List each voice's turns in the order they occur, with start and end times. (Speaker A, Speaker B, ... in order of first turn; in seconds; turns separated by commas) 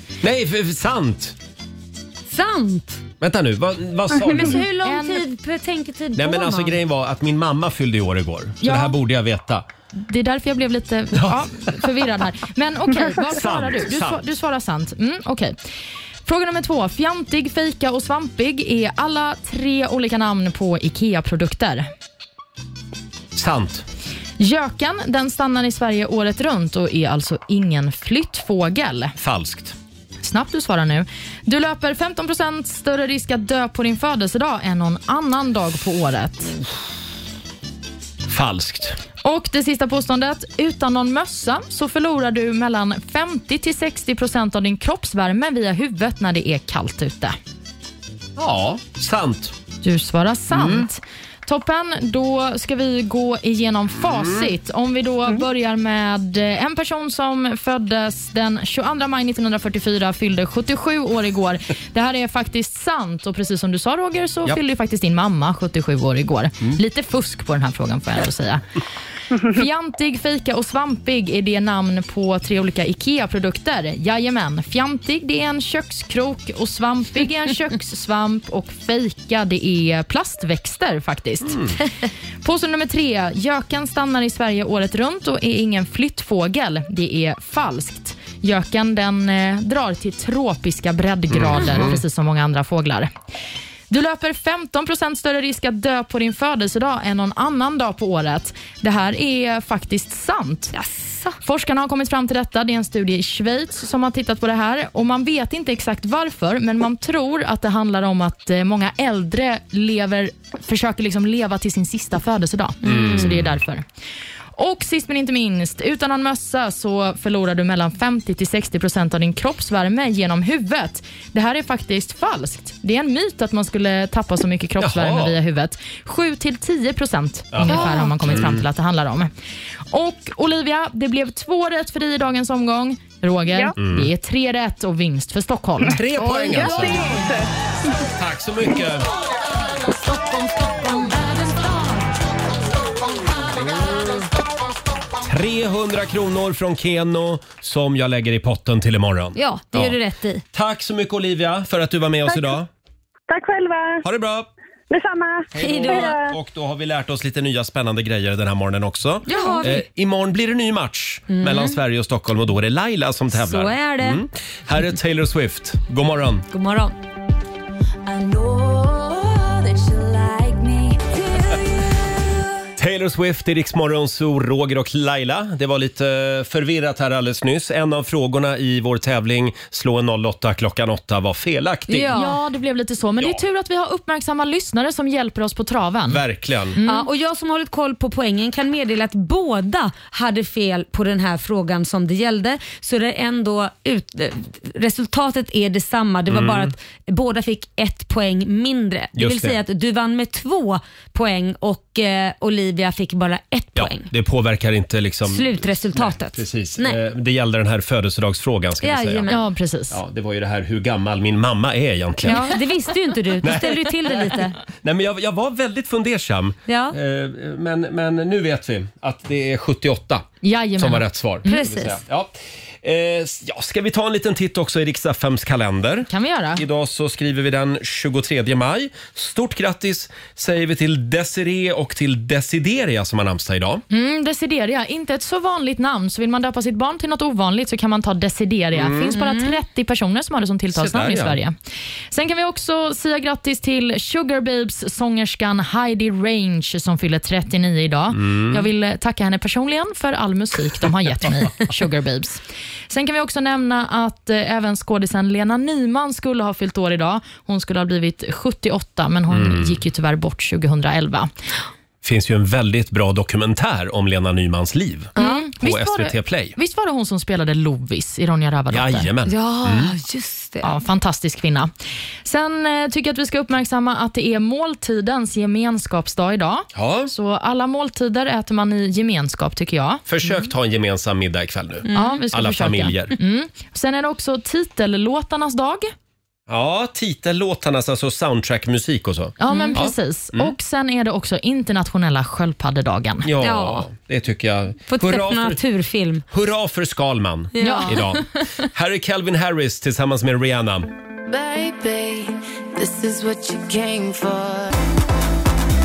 Speaker A: 0.2-1.4, Speaker B: 2.3-3.0, Speaker A: 3.2-4.6, Speaker B: 4.2-6.7, Speaker C: 4.8-5.2, Speaker A: 6.2-9.7, Speaker C: 8.6-8.9, Speaker C: 9.9-15.6, Speaker A: 11.1-11.7, Speaker A: 13.2-14.2, Speaker C: 16.2-21.9, Speaker A: 23.3-23.9, Speaker C: 24.4-29.1, Speaker A: 29.2-29.8, Speaker C: 30.2-36.5, Speaker A: 38.3-39.0, Speaker C: 39.2-47.4, Speaker A: 48.4-49.5, Speaker C: 49.8-68.6, Speaker A: 50.5-50.9, Speaker A: 54.0-54.5, Speaker C: 69.4-81.6, Speaker A: 81.4-81.8, Speaker C: 82.4-93.1, Speaker A: 91.3-92.0, Speaker C: 93.9-100.7, Speaker B: 100.7-101.3, Speaker C: 101.4-113.8, Speaker B: 112.8-113.3, Speaker A: 112.8-113.6, Speaker C: 114.6-129.3, Speaker A: 124.8-125.3, Speaker A: 127.5-128.6, Speaker B: 127.7-128.2, Speaker C: 129.9-137.1, Speaker A: 133.8-134.1, Speaker A: 135.8-137.2, Speaker D: 136.3-137.5, Speaker A: 138.2-139.1, Speaker A: 143.6-144.1, Speaker A: 145.2-149.9, Speaker B: 149.3-150.4, Speaker A: 150.5-152.7, Speaker D: 152.3-152.6, Speaker D: 153.3-154.0, Speaker A: 154.0-154.5, Speaker D: 154.9-156.3, Speaker A: 155.5-166.4, Speaker B: 155.6-156.2, Speaker B: 159.3-159.8, Speaker B: 161.3-161.8, Speaker B: 163.3-164.2, Speaker B: 166.5-166.9, Speaker E: 168.1-171.6, Speaker A: 172.8-182.1, Speaker B: 181.9-182.4, Speaker C: 182.1-186.2, Speaker A: 186.1-186.8, Speaker C: 186.7-187.1, Speaker B: 186.8-204.1, Speaker A: 196.3-196.7, Speaker A: 199.1-199.6, Speaker A: 203.8-209.3, Speaker B: 205.3-207.0, Speaker B: 208.8-209.4, Speaker C: 209.3-210.0, Speaker A: 209.9-212.5, Speaker B: 212.2-214.6, Speaker A: 213.4-233.8, Speaker B: 216.7-216.9, Speaker C: 220.4-221.1, Speaker B: 221.4-222.0, Speaker C: 226.1-226.6, Speaker C: 233.9-241.5, Speaker A: 238.7-239.2, Speaker B: 239.1-239.6, Speaker A: 240.7-241.4, Speaker C: 242.1-261.3, Speaker A: 248.1-248.6, Speaker A: 259.3-259.8, Speaker A: 262.0-266.5, Speaker C: 265.1-269.1, Speaker B: 265.2-265.4, Speaker A: 268.7-269.9, Speaker B: 269.3-270.7, Speaker C: 270.6-271.7, Speaker C: 272.2-280.0, Speaker A: 276.7-277.1, Speaker A: 280.1-283.1, Speaker B: 281.9-282.2, Speaker C: 281.9-285.9, Speaker A: 286.5-290.5, Speaker C: 289.4-293.3, Speaker B: 289.5-289.8, Speaker A: 293.2-295.6, Speaker B: 293.4-293.9, Speaker B: 294.9-296.2, Speaker A: 296.3-300.9, Speaker B: 297.5-298.0, Speaker C: 297.6-298.2, Speaker E: 301.3-302.1, Speaker E: 303.0-304.1